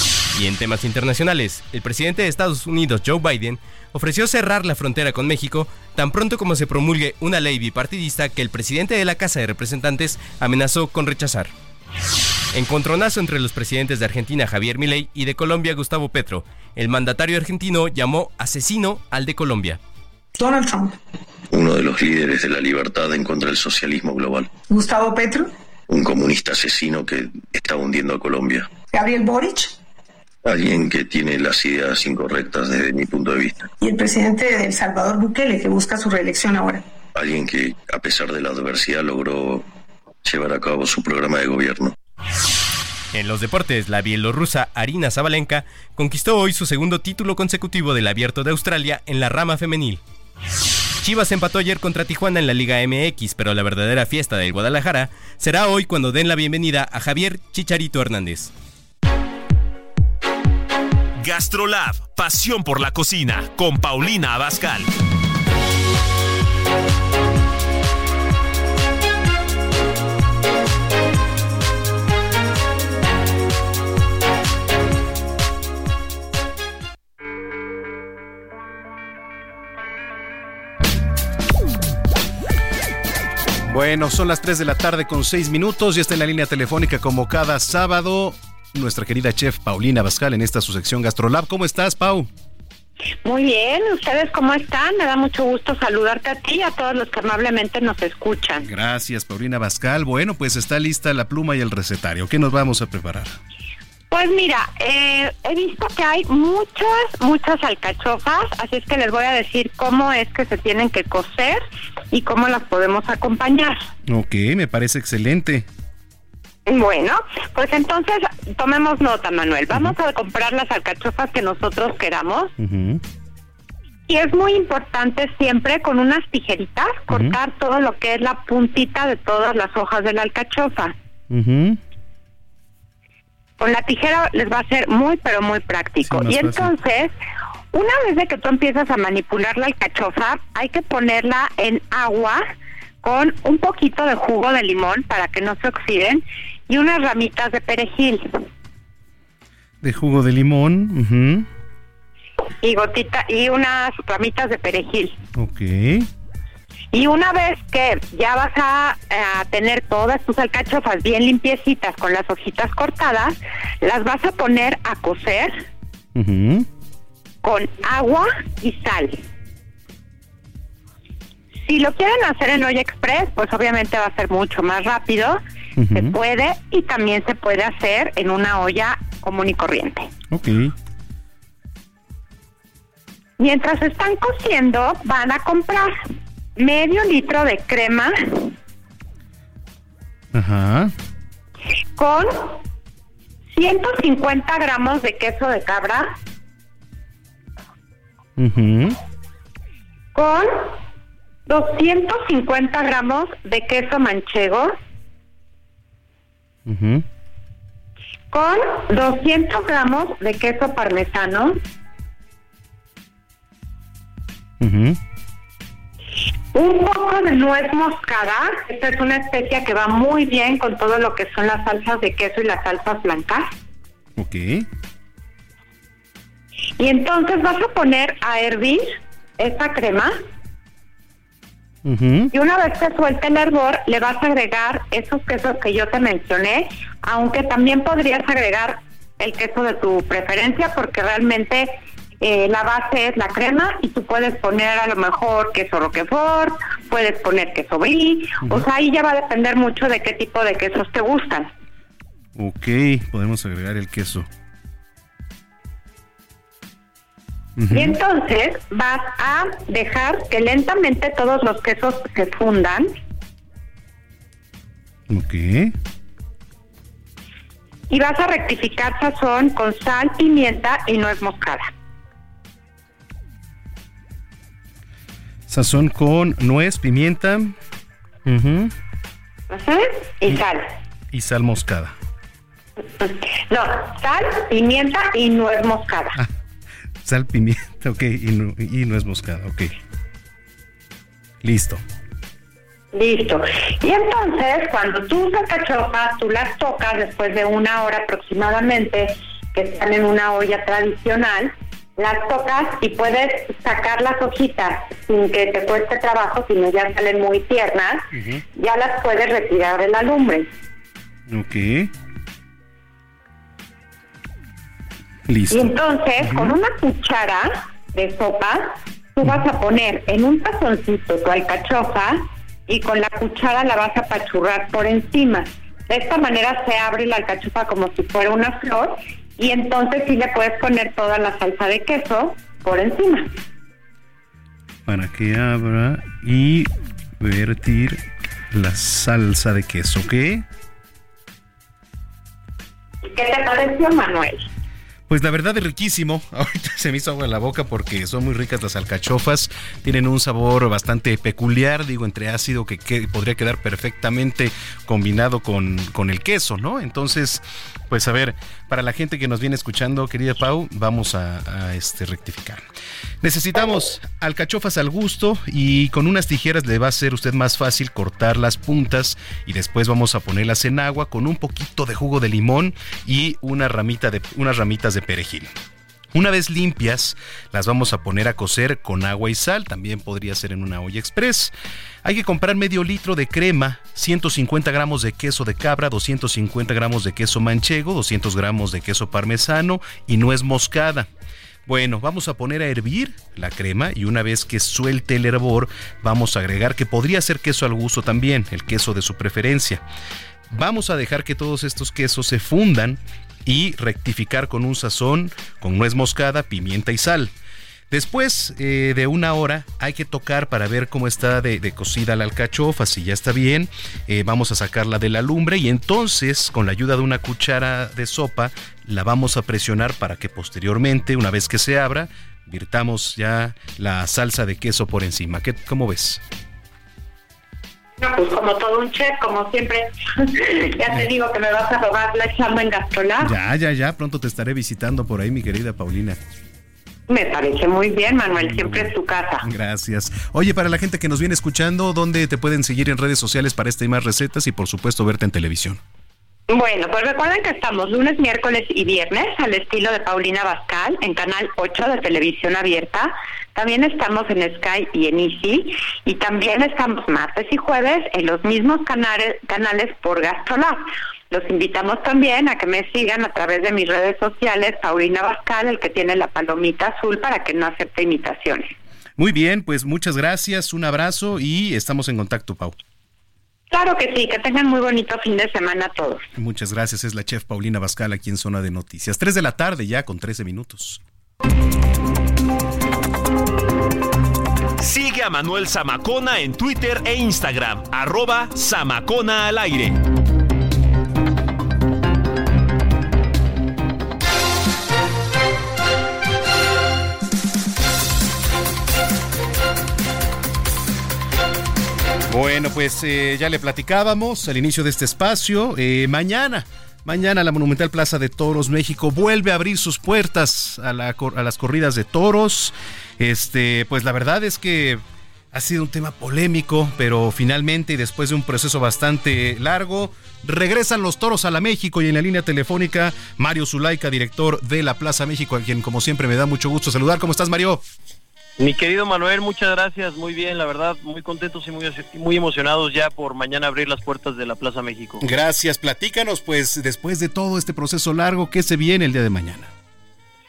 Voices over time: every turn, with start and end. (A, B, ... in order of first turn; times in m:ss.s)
0:00.3-0:11.5 A
0:12.5-0:19.8 A
0:20.4-0:21.0 B
0:21.5-0:24.5 C
0:24.7-0:25.5 B
0:25.9-0:28.7 C
0:28.9-0:29.7 B
0:30.4-0:33.7 C
0:33.8-0:36.8 B
0:37.1-0:39.7 C
0:40.2-0:41.9 C
0:43.1-0:50.0 A
0:51.0-0:58.5 A
1:01.2-1:04.9 D
1:23.7-1:32.3 E
1:33.2-1:38.6 F
1:38.6-1:43.4 E
1:44.1-1:53.9 F
1:54.1-1:55.7 E
1:56.6-2:02.5 F
2:02.6-2:03.0 E
2:04.1-2:10.9 F
2:07.1-2:07.4 E
2:11.3-2:11.8 E
2:13.6-2:17.1 F
2:16.0-2:16.7 E
2:17.7-2:22.4 F
2:23.0-2:28.3 F
2:29.8-2:31.5 E
2:32.6-2:35.2 F
2:35.4-2:36.1 E
2:36.9-2:45.6 F
2:46.1-2:46.7 E
2:47.4-2:49.2 F
2:51.6-2:55.4 F
2:55.8-2:56.1 E
2:55.9-3:00.1 F
3:00.3-3:00.7 E
3:03.4-3:06.0 F
3:06.6-3:08.5 F
3:10.3-3:10.9 E
3:12.0-3:12.6 F
3:13.5-3:16.2 F
3:18.4-3:19.0 E
3:20.1-3:20.8 F
3:21.5-3:24.7 F
3:26.6-3:27.0 E
3:28.3-3:31.6 F
3:34.6-3:35.0 E
3:36.5-3:43.5 F
3:44.2-3:44.7 E
3:46.8-3:50.2 F
3:51.8-3:52.3 E
3:52.3-4:11.5 F
4:08.4-4:08.7 E
4:12.4-4:14.3 E
4:17.6-4:18.0 E
4:17.7-4:22.9 F
4:25.1-4:25.7 E
4:27.9-4:31.7 F
4:35.5-4:37.5 E
4:38.2-4:38.7 E
4:39.5-4:40.7 F
4:41.1-4:41.9 E
4:42.8-4:46.1 F
4:47.0-4:49.7 E
4:51.4-4:51.8 E
4:52.9-5:10.5 F
5:08.1-5:08.4 E
5:11.3-5:11.9 E
5:15.3-5:16.6 E
5:15.5-5:33.3 F
5:34.8-5:40.4 E
5:43.0-5:44.5 F
5:45.1-6:02.6 E
6:03.2-6:15.5 E
6:16.1-6:21.5 E
6:22.0-6:31.1 E
6:31.6-6:39.8 E
6:40.5-6:47.3 E
6:47.9-7:06.2 E
7:08.0-7:13.3 F
7:13.2-7:16.2 E
7:17.1-7:19.4 F
7:18.3-7:25.8 E
7:26.5-7:48.8 F
7:49.2-7:52.8 E
7:53.7-7:56.3 F
7:56.4-8:01.0 E
8:04.8-8:10.0 D
8:22.3-8:35.0 E
8:35.5-8:47.8 E
8:48.6-8:55.2 G
8:55.2-8:59.7 E